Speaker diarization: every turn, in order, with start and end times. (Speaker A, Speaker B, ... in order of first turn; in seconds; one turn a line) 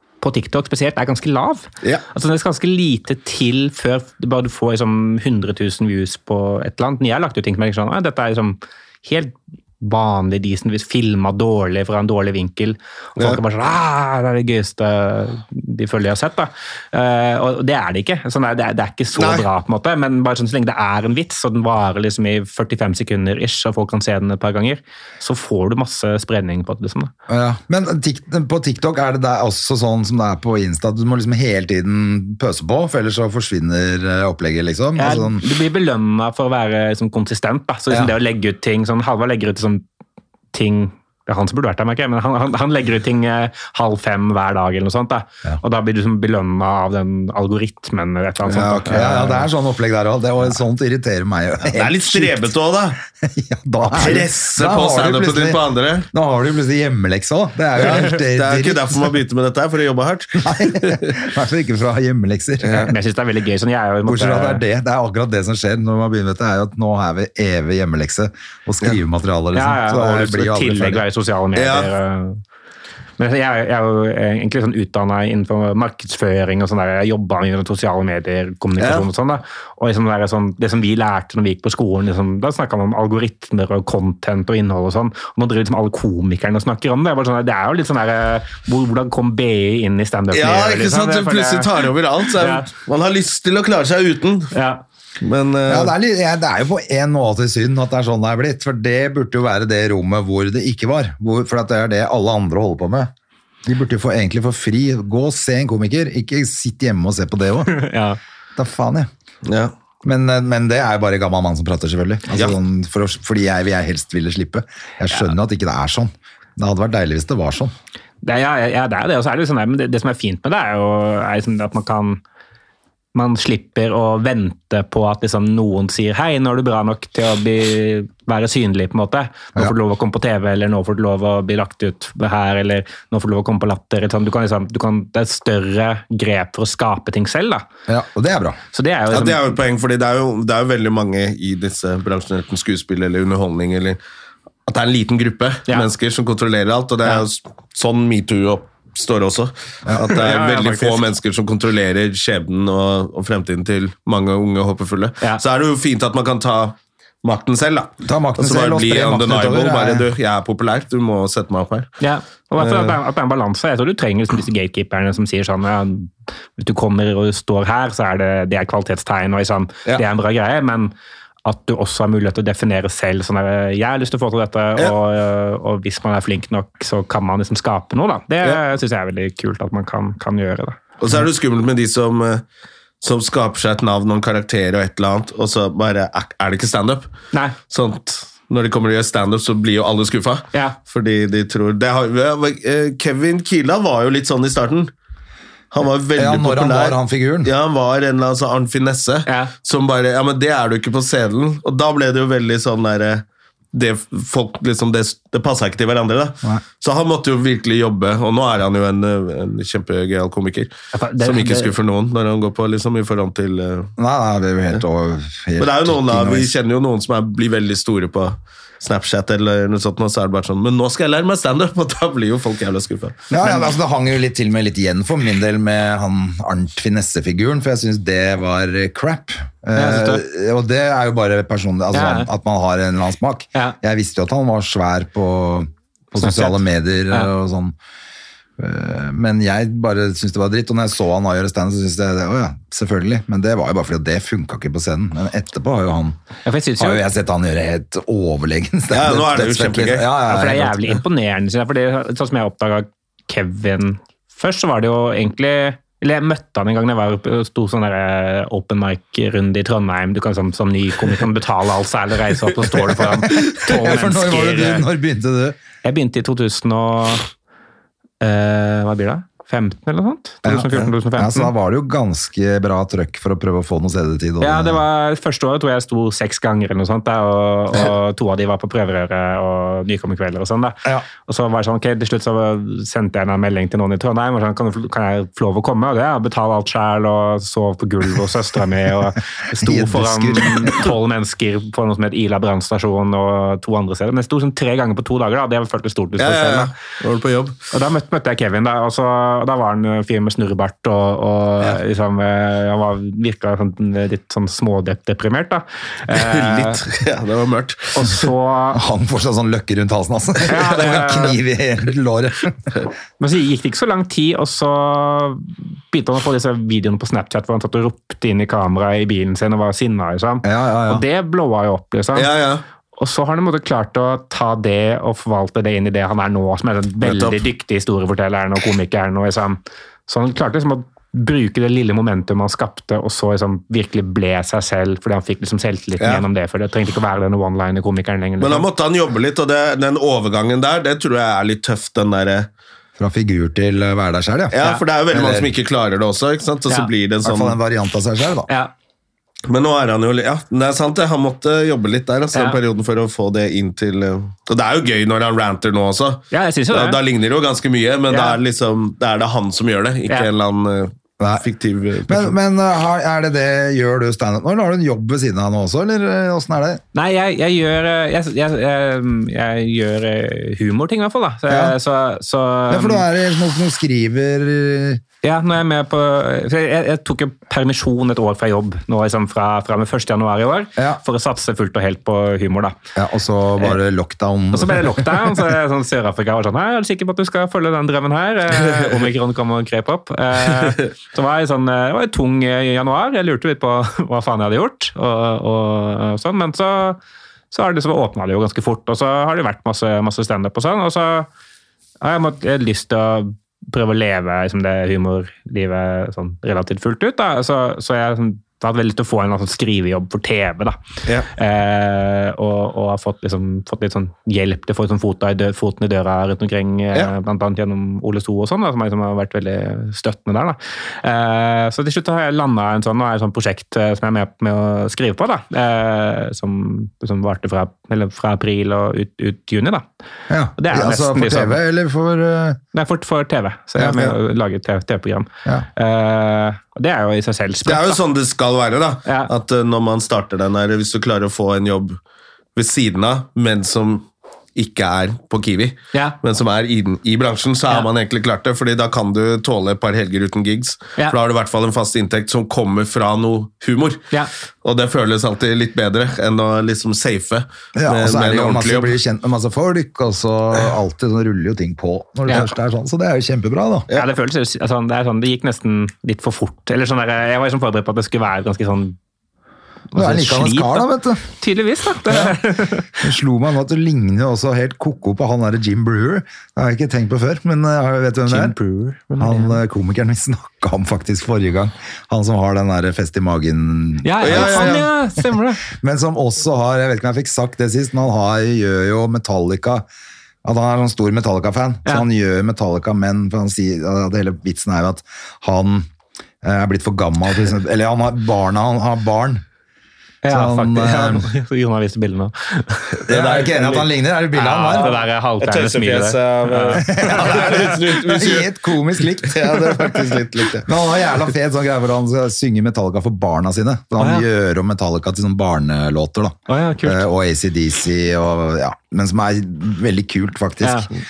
Speaker A: 0.2-27.1
Speaker B: 19.1-19.4
Speaker C: 27.3-35.4
Speaker A: 35.0-39.8
Speaker A: 40.5-49.5
Speaker C: 48.4-52.5
Speaker B: 51.7-53.0
Speaker C: 53.2-59.1
Speaker B: 53.8-56.1
Speaker B: 57.8-61.1
Speaker C: 60.4-62.9
Speaker B: 62.6-62.9
Speaker A: 62.9-64.6
Speaker C: 64.0-71.0
Speaker A: 69.5-72.4
Speaker B: 71.5-71.9
Speaker A: 73.2-92.7
Speaker B: 78.8-79.0
Speaker B: 90.3-94.5
Speaker A: 94.5-94.8
Speaker B: 95.2-95.9
Speaker C: 95.7-103.1
Speaker C: 103.7-107.7
Speaker A: 107.7-108.2
Speaker C: 108.6-109.1
Speaker B: 109.4-109.7
Speaker C: 110.0-117.7
Speaker A: 118.2-122.2
Speaker A: 123.1-137.6
Speaker C: 137.9-138.6
Speaker A: 138.7-139.5
Speaker B: 139.1-144.0
Speaker B: 144.7-161.9
Speaker A: 150.1-151.1
Speaker C: 158.0-160.1
Speaker A: 162.0-170.9
Speaker B: 162.6-162.9
Speaker A: 171.4-180.8
Speaker B: 181.0-182.4
Speaker B: 183.0-187.1
Speaker B: 187.7-194.9
Speaker B: 195.7-213.9
Speaker C: 196.2-197.5
Speaker A: 199.3-199.5
Speaker A: 210.9-211.7
Speaker C: 214.0-216.5
Speaker B: 215.6-223.2
Speaker C: 223.3-237.7
Speaker A: 229.7-230.2
Speaker A: 231.9-232.3
Speaker A: 236.2-236.6
Speaker C: 238.6-246.2
Speaker A: 246.4-247.0
Speaker C: 246.8-250.9
Speaker B: 248.9-250.1
Speaker A: 250.2-264.9
Speaker C: 263.0-265.6
Speaker A: 265.8-267.3
Speaker A: 268.2-271.5
Speaker C: 270.4-274.8
Speaker A: 274.4-296.7
Speaker C: 289.5-290.9
Speaker B: 296.2-297.6
Speaker A: 297.7-306.8
Speaker B: 306.1-308.2
Speaker A: 307.9-308.8
Speaker C: 308.7-312.7
Speaker A: 310.4-311.4
Speaker A: 313.2-322.3
Speaker C: 320.4-321.0
Speaker B: 322.1-322.6
Speaker A: 323.0-338.6
Speaker B: 327.0-327.4
Speaker B: 336.0-336.2
Speaker B: 338.4-342.5
Speaker C: 343.0-345.5
Speaker B: 344.5-347.6
Speaker C: 347.2-348.5
Speaker B: 349.5-362.3
Speaker A: 352.3-352.6
Speaker A: 356.3-357.0
Speaker A: 358.1-358.4
Speaker C: 361.2-361.4
Speaker C: 362.1-366.8
Speaker A: 366.9-373.1
Speaker C: 371.5-371.8
Speaker C: 372.7-375.0
Speaker A: 375.2-382.8
Speaker C: 382.9-385.4
Speaker A: 384.5-397.0
Speaker A: 397.5-401.3
Speaker A: 402.0-410.8
Speaker A: 411.3-429.8
Speaker C: 430.3-432.6
Speaker A: 430.6-431.6
Speaker A: 432.7-438.0
Speaker C: 433.8-434.2
Speaker B: 437.6-442.0
Speaker A: 439.1-439.3
Speaker B: 442.5-454.1
Speaker B: 454.6-458.9
Speaker C: 457.7-463.9
Speaker A: 463.9-468.9
Speaker A: 469.9-473.1
Speaker C: 469.9-471.2
Speaker C: 472.1-472.4
Speaker C: 473.0-478.6
Speaker A: 478.3-479.6
Speaker C: 479.2-484.9
Speaker A: 484.0-485.6
Speaker B: 484.2-484.9
Speaker C: 485.7-489.9
Speaker C: 490.4-495.9
Speaker C: 496.4-499.4
Speaker A: 500.2-503.0
Speaker C: 500.2-501.3
Speaker B: 503.1-503.9
Speaker C: 503.1-504.9
Speaker A: 504.3-507.8
Speaker B: 504.8-508.5
Speaker C: 506.8-520.9
Speaker B: 509.2-510.7
Speaker A: 514.0-514.3
Speaker A: 516.5-517.0
Speaker A: 520.6-520.9